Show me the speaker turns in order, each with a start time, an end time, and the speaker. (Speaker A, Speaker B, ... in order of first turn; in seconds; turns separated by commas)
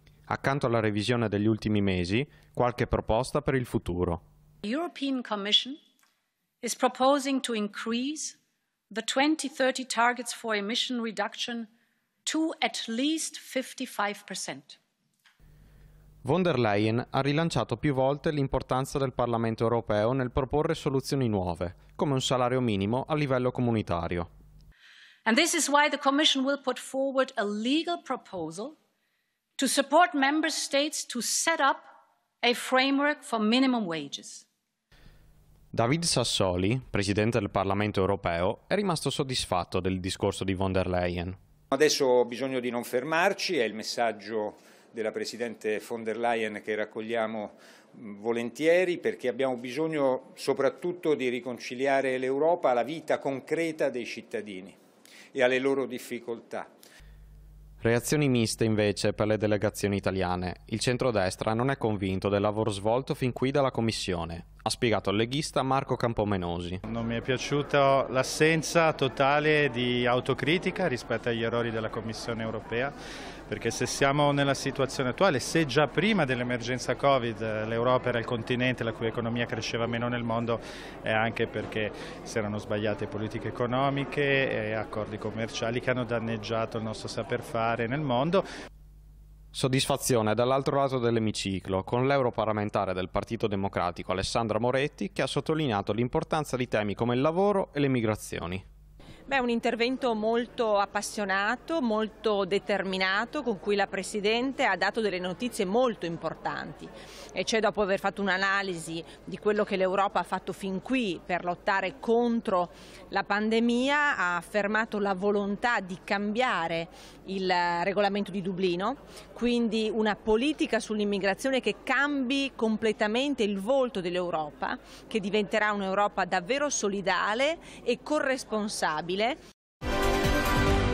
Speaker A: 0.3-4.2, Speaker B: 4.6-5.8, Speaker B: 6.6-8.4, Speaker B: 8.9-11.7, Speaker B: 12.2-14.8, Speaker A: 16.2-24.3, Speaker B: 25.2-28.7, Speaker B: 29.6-31.9, Speaker B: 32.4-34.4, Speaker A: 35.7-41.4, Speaker C: 41.7-54.8, Speaker C: 55.3-56.7, Speaker A: 57.8-66.8, Speaker D: 66.9-72.9, Speaker D: 73.5-88.4, Speaker A: 89.5-98.6, Speaker E: 99.3-129.4